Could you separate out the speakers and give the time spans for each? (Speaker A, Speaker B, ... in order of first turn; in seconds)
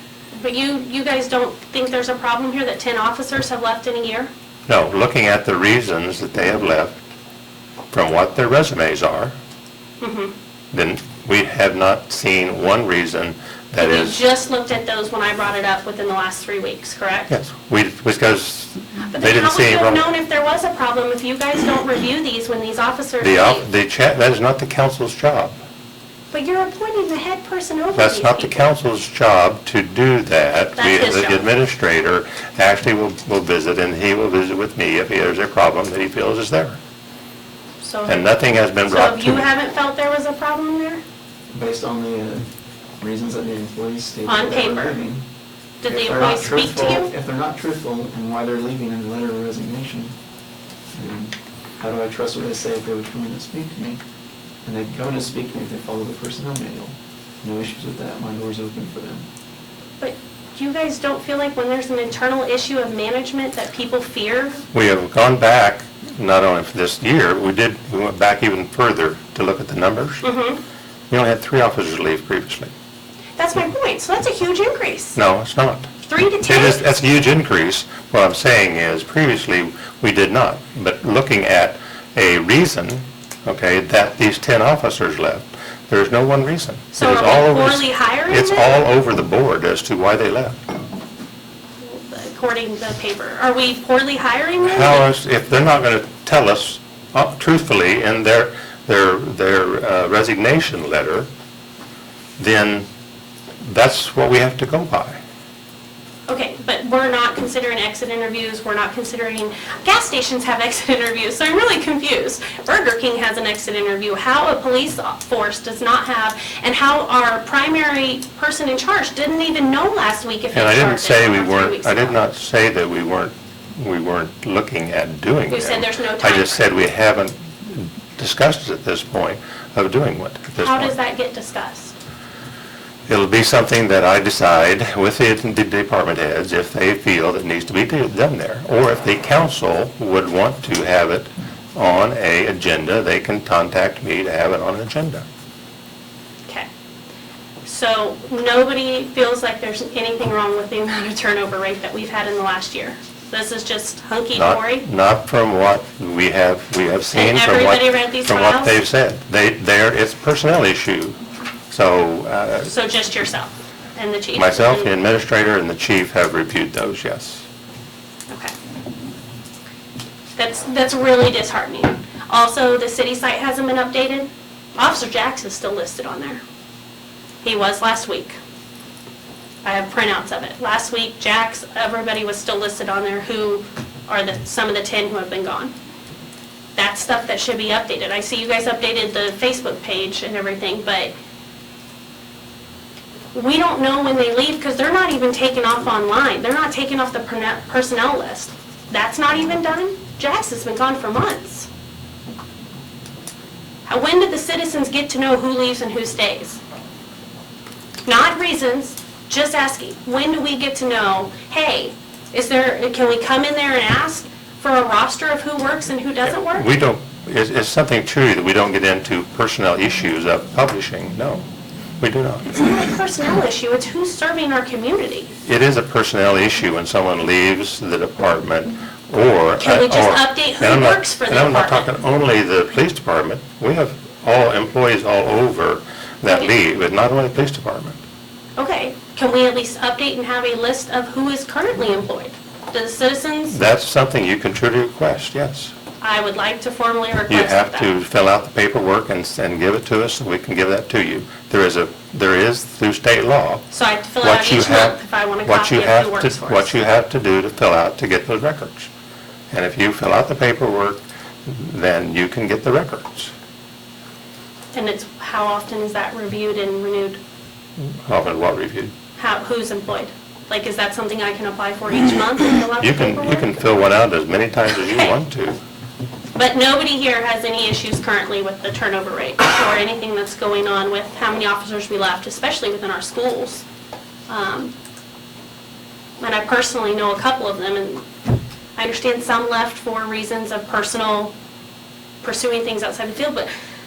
Speaker A: 0.3-4.3, 10.0-10.3, 13.8-17.3, 19.1-23.7, 26.3-28.6, 30.8-31.5, 37.8-38.2, 38.9-41.0, 44.2-45.0, 45.8-47.1, 60.0-64.6, 70.2-70.6, 73.4-75.2, 76.0-76.8, 86.9-88.8, 91.8-95.0, 106.3-122.2, 125.5-126.6, 130.6-131.9, 147.6-154.9, 157.1-158.8, 162.7-164.9, 170.3-176.4, 177.4-178.4, 179.6-185.7, 186.8-191.1, 193.3-201.7, 203.8-206.6, 208.1-216.7, 222.5-225.3, 229.6-231.9, 238.6-243.6, 246.0-247.9, 253.7-256.7, 264.7-267.2, 269.2-273.6, 274.7-275.1, 276.3-283.6, 284.3-284.7, 286.2-288.0, 288.8-291.3, 292.2-293.5
Speaker B: 4.7-7.0, 7.9-9.3, 10.7-14.2, 17.3-20.1, 23.2-25.6, 27.9-36.8, 38.0-39.5, 64.7-70.2, 71.1-72.7, 75.2-75.9, 76.5-90.6, 94.6-101.3, 102.4-102.8, 103.6-105.2, 120.5-130.9, 133.1-145.2, 154.3-161.2, 161.7-162.7, 164.3-167.4, 216.3-221.4, 222.0-222.6, 225.4-238.0, 243.5-245.7, 247.3-253.6, 254.2-258.9, 259.5-263.3, 267.8-268.9, 272.8-275.6
Speaker C: 41.5-42.5, 43.0-45.2, 45.8-50.1, 50.9-54.0, 54.6-59.2